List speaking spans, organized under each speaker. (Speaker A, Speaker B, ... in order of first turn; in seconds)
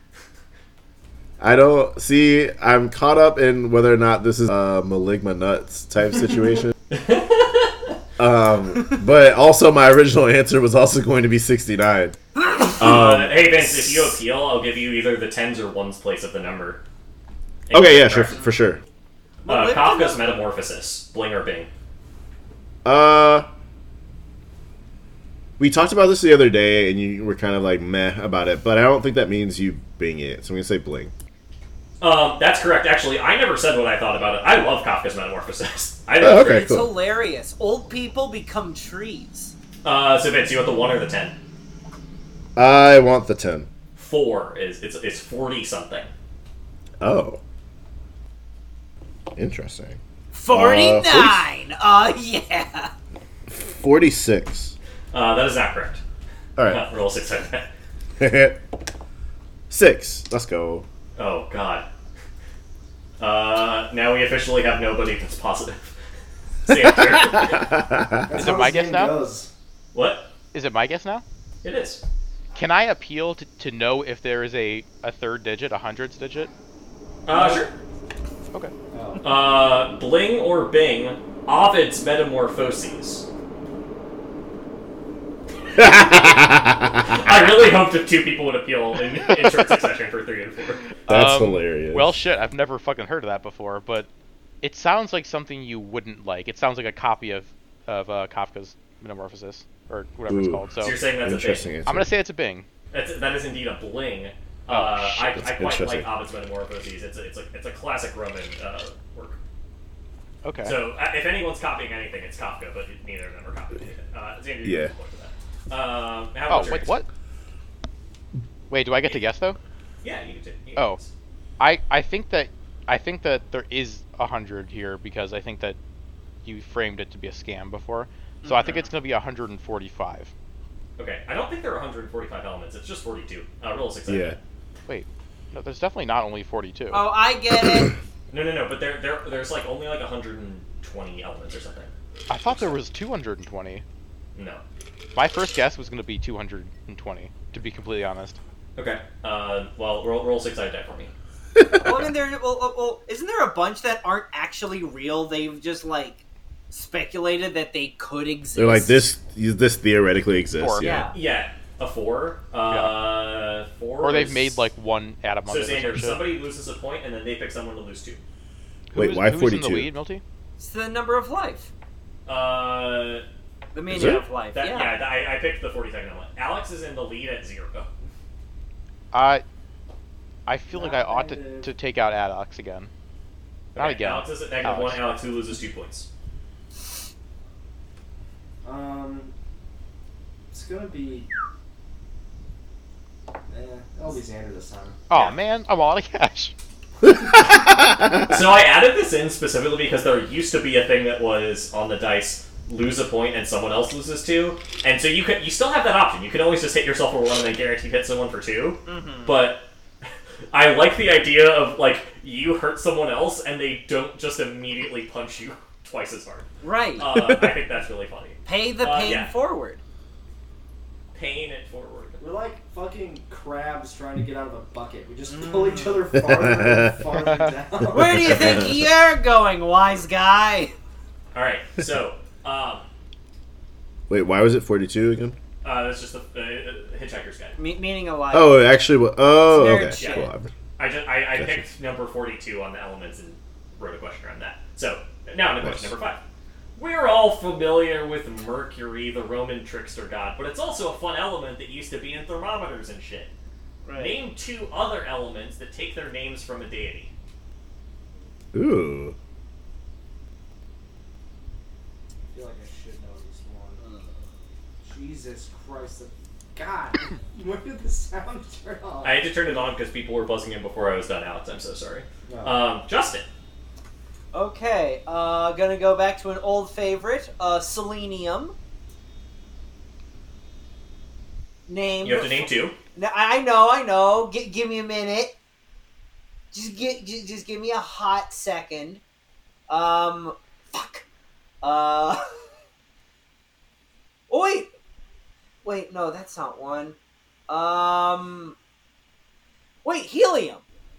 Speaker A: 1.4-6.7, 8.2-12.2, 12.8-14.1, 17.7-18.8, 22.8-23.5, 25.6-31.1, 36.2-37.0, 42.5-43.7, 47.0-47.4, 49.4-51.5, 53.5-54.7, 56.6-56.9, 58.2-58.6, 59.7-60.9, 67.5-68.1, 85.8-86.9, 91.1-92.2, 100.3-102.1, 105.0-106.1, 114.6-114.9, 134.1-134.4, 151.6-152.1, 158.5-161.1, 168.9-169.9, 173.9-174.2, 226.3-226.9, 228.0-228.8, 234.1-235.4, 238.3-240.5, 241.3-241.7, 245.6-245.9, 258.5-259.1
Speaker B: 6.9-7.9, 12.5-16.8, 17.7-18.4, 19.4-21.7, 32.0-36.7, 39.8-41.3, 44.0-46.1, 55.1-56.0, 56.6-57.7, 61.1-61.9, 63.2-65.9, 66.7-67.8, 69.9-70.3, 71.6-72.0, 77.2-77.7, 79.2-83.3, 87.0-90.9, 100.8-101.7, 102.9-109.4, 110.6-117.0, 120.0-121.1, 131.0-134.4, 138.3-141.9, 144.3-144.6, 148.8-151.1, 161.1-164.6, 165.4-168.2, 172.2-173.2, 174.5-177.9, 183.7-186.1, 195.1-195.4, 198.2-209.7, 210.5-219.3, 221.1-222.2, 231.3-232.8, 235.6-237.6, 239.9-246.2, 246.8-253.3, 253.9-257.1, 269.0-273.2, 282.0-282.8
Speaker C: 19.4-20.2, 36.4-39.5, 50.3-52.9, 128.4-128.8, 136.9-137.9, 151.8-159.0, 160.8-161.1, 170.6-171.7, 173.7-175.0, 208.8-209.4, 216.6-217.1, 218.4-219.8, 225.3-226.1, 227.9-230.7, 237.6-238.6, 239.4-240.3, 253.8-254.2, 274.3-278.5, 281.7-285.4, 286.5-289.0, 289.7-291.0, 291.6-292.2, 294.3-294.7, 295.6-296.9, 297.5-298.6, 299.8-300.6
Speaker D: 68.3-69.5, 77.3-77.7, 78.9-79.2, 180.7-181.7, 188.6-189.3, 190.5-191.3, 193.5-195.0, 222.2-228.7, 262.3-263.8, 264.8-269.3, 272.3-272.7
Speaker E: 68.3-69.2, 70.5-71.2, 72.5-76.5, 91.1-94.1, 94.6-101.0, 101.8-102.7, 104.7-105.1, 110.4-110.8, 116.5-117.1, 118.7-119.6, 121.6-125.8, 126.4-130.3, 134.9-137.2, 142.3-143.8, 145.1-148.4, 160.6-161.0, 162.7-163.1, 164.0-166.2, 168.9-170.2, 179.1-179.4, 180.4-182.9, 183.8-185.1, 195.1-196.5